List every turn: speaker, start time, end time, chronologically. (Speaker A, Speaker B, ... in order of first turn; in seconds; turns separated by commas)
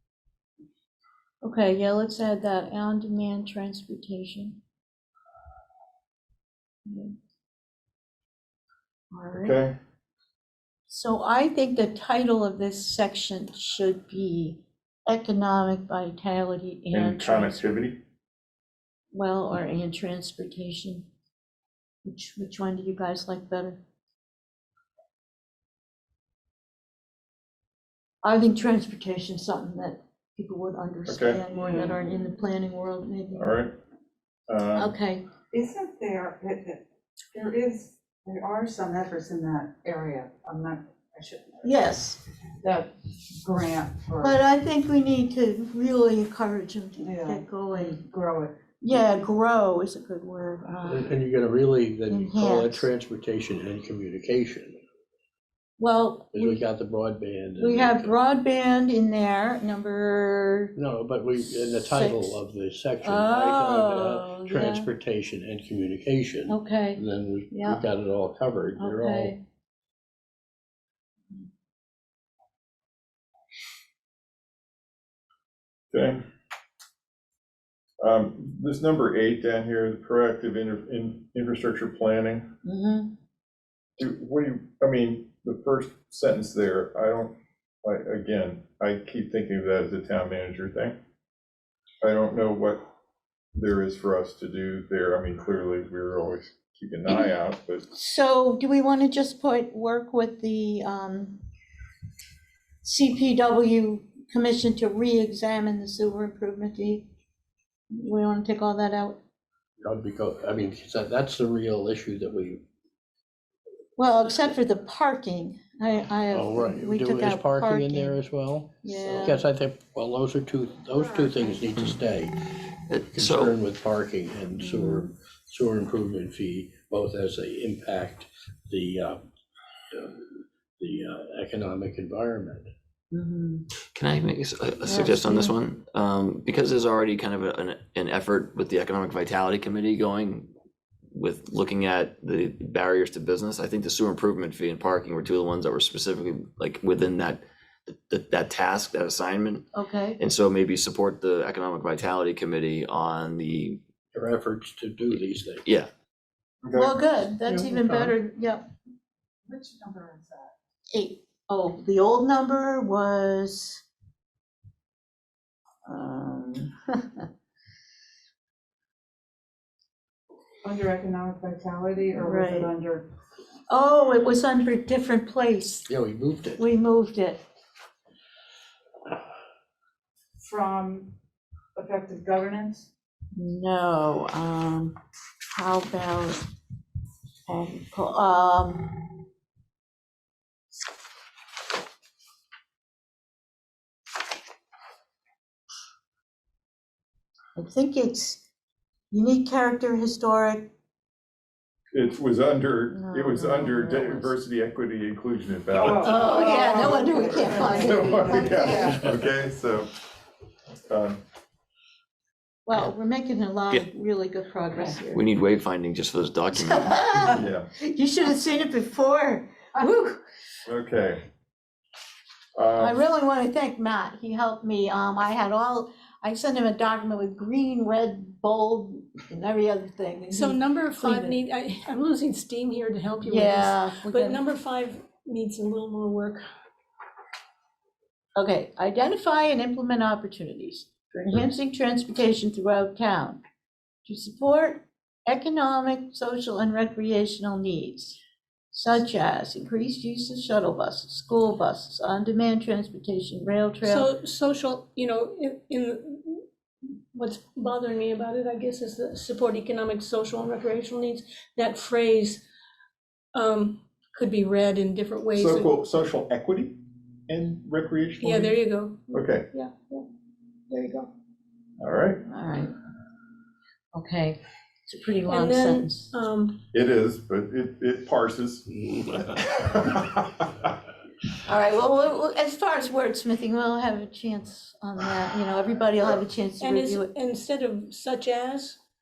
Speaker A: 1.4-4.6, Speaker A: 6.9-7.1, Speaker A: 9.1-9.6, Speaker B: 9.4-9.8, Speaker A: 10.9-17.8, Speaker B: 16.9-18.0, Speaker A: 19.1-21.1, Speaker A: 22.1-23.8, Speaker A: 28.2-33.5, Speaker B: 31.1-31.4, Speaker C: 31.5-32.1, Speaker B: 33.3-33.7, Speaker B: 34.5-34.9, Speaker A: 34.8-35.2, Speaker C: 35.5-41.8, Speaker A: 41.6-42.2, Speaker C: 42.6-44.4, Speaker A: 44.2-48.0, Speaker C: 47.0-48.6, Speaker A: 48.8-51.1, Speaker D: 50.8-54.8, Speaker A: 52.1-52.9, Speaker A: 55.8-56.6, Speaker D: 56.3-58.1, Speaker A: 57.6-60.7, Speaker D: 60.8-69.3, Speaker A: 61.6-62.4, Speaker A: 63.0-64.9, Speaker A: 66.5-67.8, Speaker A: 68.8-69.4, Speaker B: 75.9-76.2, Speaker B: 78.0-82.5, Speaker A: 82.7-83.1, Speaker B: 84.0-91.0, Speaker B: 92.0-92.8, Speaker B: 93.6-97.9, Speaker A: 97.1-97.3, Speaker A: 97.9-101.4, Speaker A: 102.8-107.1, Speaker A: 107.9-109.2, Speaker D: 109.8-112.6, Speaker A: 114.0-118.2, Speaker D: 116.3-122.4, Speaker A: 118.8-119.5, Speaker E: 122.9-123.5, Speaker D: 123.1-129.2, Speaker A: 124.6-125.1, Speaker D: 129.9-132.7, Speaker A: 133.1-133.7, Speaker E: 133.9-140.5, Speaker A: 134.9-135.6, Speaker E: 141.1-149.7, Speaker A: 149.7-150.2, Speaker E: 150.2-153.8, Speaker D: 154.1-155.6, Speaker B: 156.6-156.9, Speaker A: 156.7-158.7, Speaker C: 159.5-160.5, Speaker A: 160.9-163.8, Speaker A: 165.9-167.2, Speaker C: 170.6-173.1, Speaker A: 172.2-172.7, Speaker A: 173.7-175.9, Speaker D: 175.9-176.7, Speaker A: 176.6-177.4, Speaker C: 180.4-181.1, Speaker C: 181.8-182.9, Speaker A: 183.4-185.0, Speaker A: 185.6-186.4, Speaker A: 187.5-188.9, Speaker A: 197.6-198.4, Speaker A: 199.1-200.7, Speaker B: 201.9-206.2, Speaker A: 202.9-204.3, Speaker C: 205.7-209.1, Speaker A: 206.0-209.1, Speaker B: 206.8-209.9, Speaker B: 210.9-211.2, Speaker A: 212.7-215.3, Speaker E: 215.1-217.1, Speaker A: 216.5-220.2, Speaker B: 217.3-217.7, Speaker B: 220.7-221.2, Speaker B: 222.6-223.0, Speaker A: 222.8-231.4, Speaker F: 230.3-236.4, Speaker A: 233.2-234.4, Speaker A: 238.4-243.4, Speaker A: 244.1-248.2, Speaker A: 248.7-254.1, Speaker F: 253.8-256.4, Speaker F: 257.1-262.4, Speaker F: 263.4-265.7, Speaker B: 265.3-268.6, Speaker F: 268.2-270.1, Speaker B: 269.1-269.5, Speaker F: 270.7-271.1, Speaker B: 271.8-272.2, Speaker A: 272.3-272.7, Speaker A: 273.9-276.1, Speaker F: 275.3-276.6, Speaker B: 276.7-280.2, Speaker A: 281.4-287.1, Speaker F: 286.6-288.8